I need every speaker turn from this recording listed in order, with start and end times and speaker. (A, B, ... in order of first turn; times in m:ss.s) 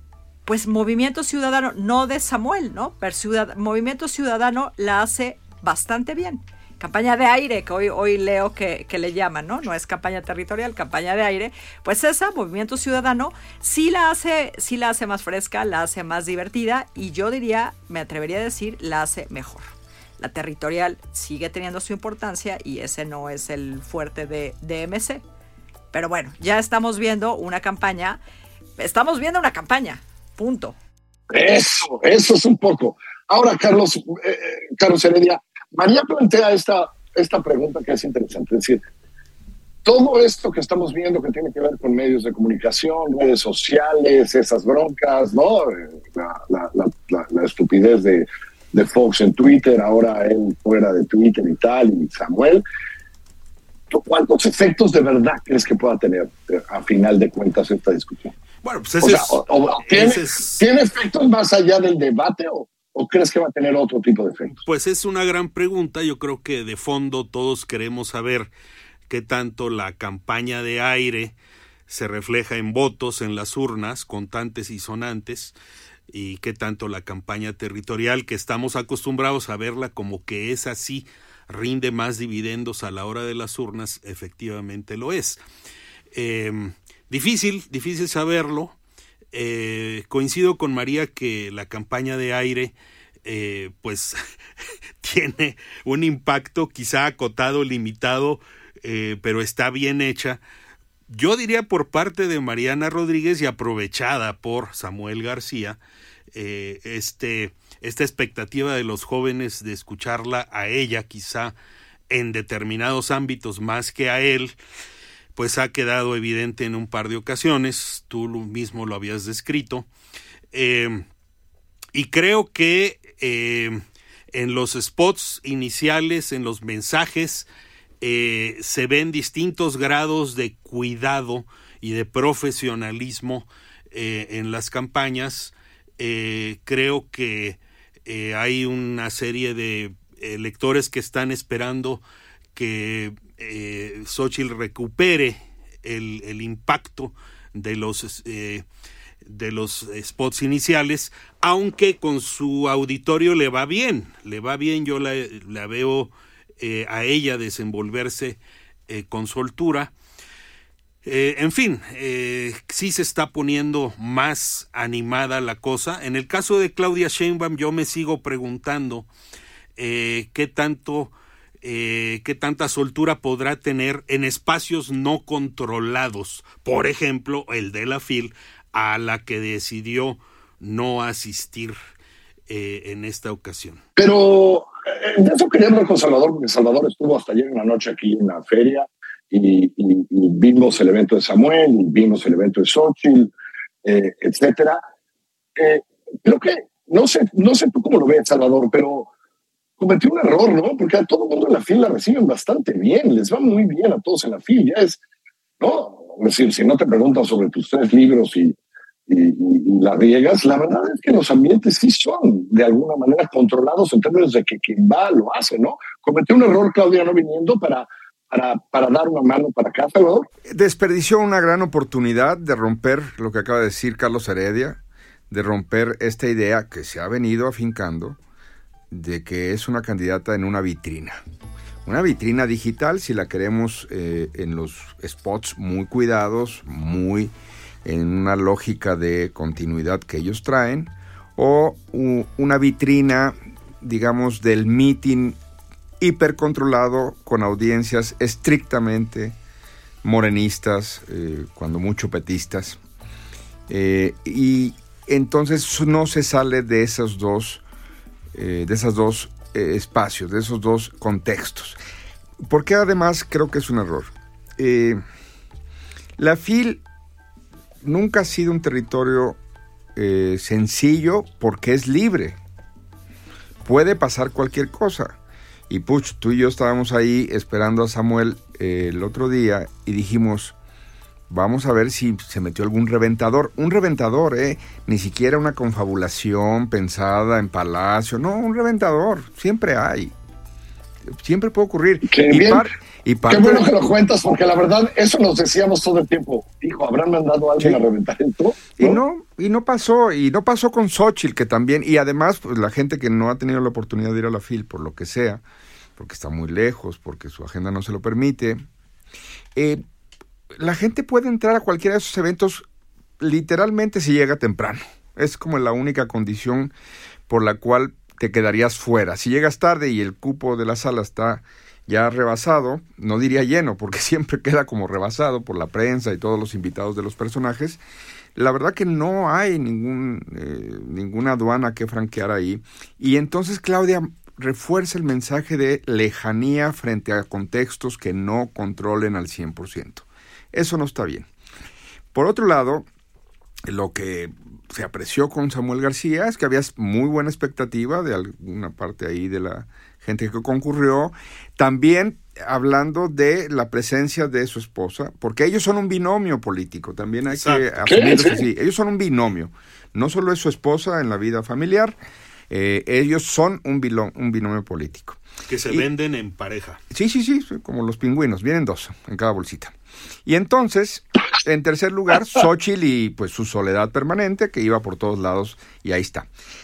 0:00.5-0:19.7 A
0:20.2-0:25.2 A
0:25.9-0:28.2 A
0:28.8-0:30.8 A
0:31.3-0:38.8 B
0:39.8-0:52.6 B
0:53.9-0:58.3 B
0:58.6-1:00.6 C
0:59.0-1:04.6 B
1:04.6-1:08.5 C
1:09.1-1:11.4 C
1:11.9-1:15.6 C
1:16.1-1:25.4 C
1:26.1-1:28.8 C
1:29.3-1:34.2 C
1:35.0-1:40.4 C
1:41.1-1:45.8 C
1:46.3-1:51.6 C
1:52.1-1:54.6 C
1:55.4-1:59.9 C
2:00.5-2:01.1 C
2:02.0-2:03.8 C
2:04.3-2:07.5 C
2:08.0-2:28.7 C
2:29.2-2:39.9 C
2:41.0-2:49.1 C
2:49.8-3:01.8 C
3:02.5-3:03.8 C
3:04.0-3:13.3 B
3:13.8-3:14.8 B
3:15.6-3:19.1 B
3:19.8-3:25.0 B
3:25.6-3:28.5 B
3:29.1-3:40.3 B
3:40.5-3:44.8 D
3:45.3-3:48.2 D
3:48.9-3:51.2 D
3:51.8-3:57.3 D
3:57.8-4:05.4 D
4:06.0-4:09.4 D
4:10.0-4:12.8 D
4:13.7-4:17.6 D
4:18.4-4:21.8 D
4:22.5-4:25.0 D
4:26.2-4:26.8 D
4:27.8-4:29.4 D
4:30.0-4:32.4 D
4:33.6-4:35.2 D
4:35.7-4:40.6 D
4:41.3-4:50.1 D
4:51.2-4:53.7 D
4:52.0-4:52.7 B
4:53.3-4:59.0 B
4:58.8-5:05.4 D
5:06.0-5:08.6 D
5:09.6-5:09.8 D
5:10.6-5:12.6 D
5:13.2-5:16.7 D
5:17.3-5:27.8 D
5:28.4-5:41.3 D
5:42.1-5:42.9 D
5:43.7-6:02.0 D
5:57.3-5:57.7 C
5:57.9-5:58.4 B
6:02.5-6:05.9 D
6:05.5-6:06.8 C
6:06.9-6:09.7 D
6:10.3-6:16.3 D